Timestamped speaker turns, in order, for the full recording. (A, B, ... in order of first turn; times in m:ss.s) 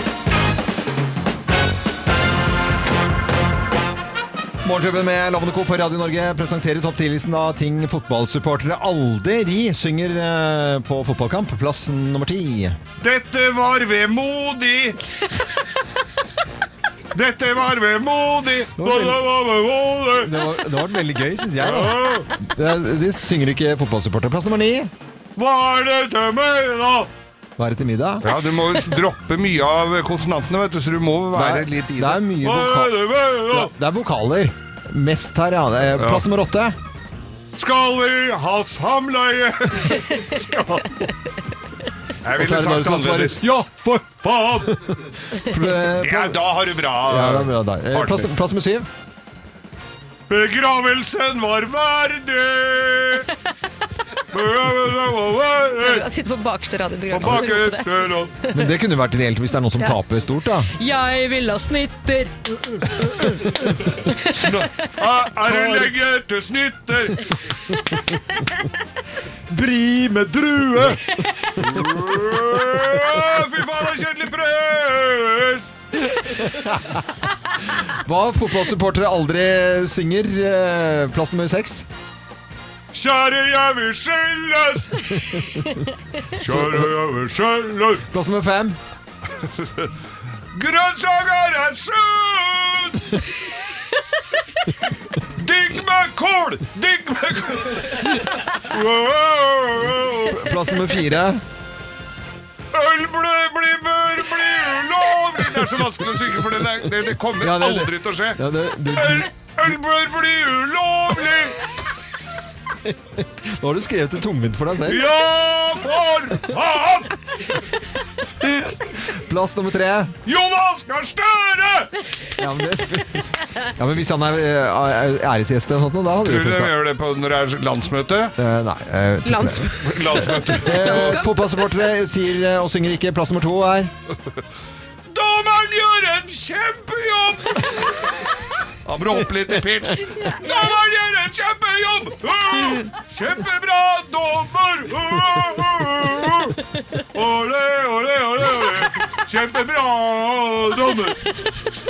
0:04.6-0:12.8 A
0:13.0-0:15.0 B
0:17.1-0:20.5 B
0:18.8-0:19.2 A
0:20.2-0:24.9 A
0:21.6-0:22.4 B
0:25.4-0:27.1 B
0:27.6-0:28.3 A
0:28.2-0:33.7 B
0:31.3-0:36.8 A
0:36.0-0:36.3 B
0:37.6-0:41.2 B
0:42.2-0:43.5 B
0:42.3-0:48.9 A
0:44.1-0:45.0 B
0:46.0-0:48.3 B
0:50.3-0:53.3 B
0:54.3-0:56.1 B
0:55.8-0:58.7 C
0:57.1-0:58.3 B
0:58.5-1:00.7 A
1:00.8-1:04.6 C
1:04.1-1:07.4 B
1:05.5-1:05.9 A
1:07.7-1:08.6 C
1:09.5-1:11.9 A
1:11.6-1:15.7 B
1:16.2-1:17.1 A
1:17.8-1:21.9 A
1:22.9-1:25.3 B
1:26.3-1:28.1 B
1:26.4-1:26.9 A
1:28.1-1:28.8 A
1:29.4-1:29.9 B
1:30.5-1:33.2 B
1:35.4-1:40.5 B
1:40.2-1:41.4 A
1:42.7-1:51.6 B
1:47.4-1:49.3 A
1:52.9-1:55.0 A
1:54.8-1:57.3 B
1:58.4-2:00.2 A
2:00.2-2:01.9 B
2:02.4-2:06.8 A
2:06.2-2:08.4 B
2:08.4-2:13.9 A
2:09.2-2:11.5 C
2:09.8-2:11.2 B
2:15.1-2:18.3 B
2:18.8-2:31.2 B